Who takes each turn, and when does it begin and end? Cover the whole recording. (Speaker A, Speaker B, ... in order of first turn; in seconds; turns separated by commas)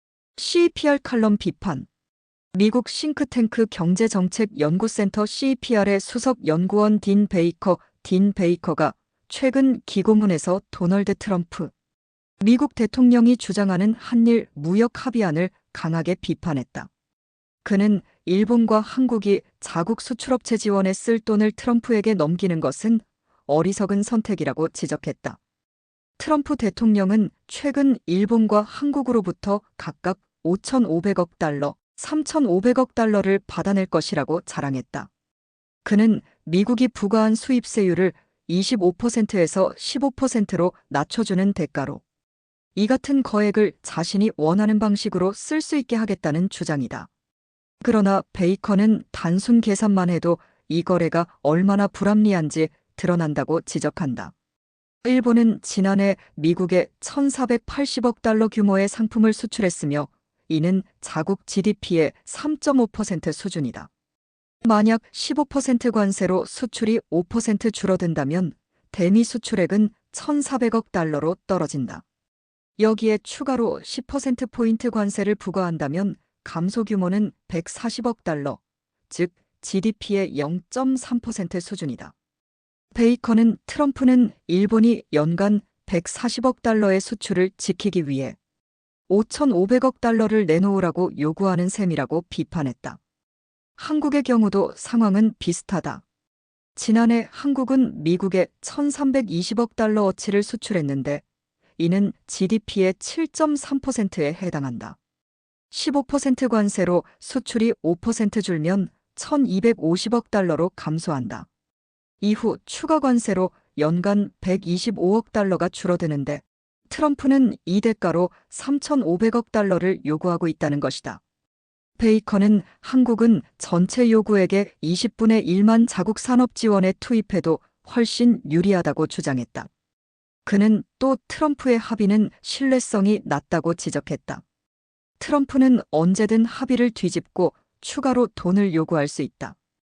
Speaker A: 0.4-1.9, Speaker A: 2.5-11.7, Speaker A: 12.4-16.9, Speaker A: 17.6-25.4, Speaker A: 26.2-35.1, Speaker A: 35.9-42.0, Speaker A: 42.8-47.1, Speaker A: 47.8-54.3, Speaker A: 55.0-63.9, Speaker A: 64.6-72.0, Speaker A: 72.8-82.1, Speaker A: 82.9-88.4, Speaker A: 89.1-93.0, Speaker A: 93.8-96.0, Speaker A: 96.8-101.2, Speaker A: 101.8-105.0, Speaker A: 105.7-111.5, Speaker A: 112.2-121.2, Speaker A: 122.0-129.7, Speaker A: 130.5-134.4, Speaker A: 135.2-139.6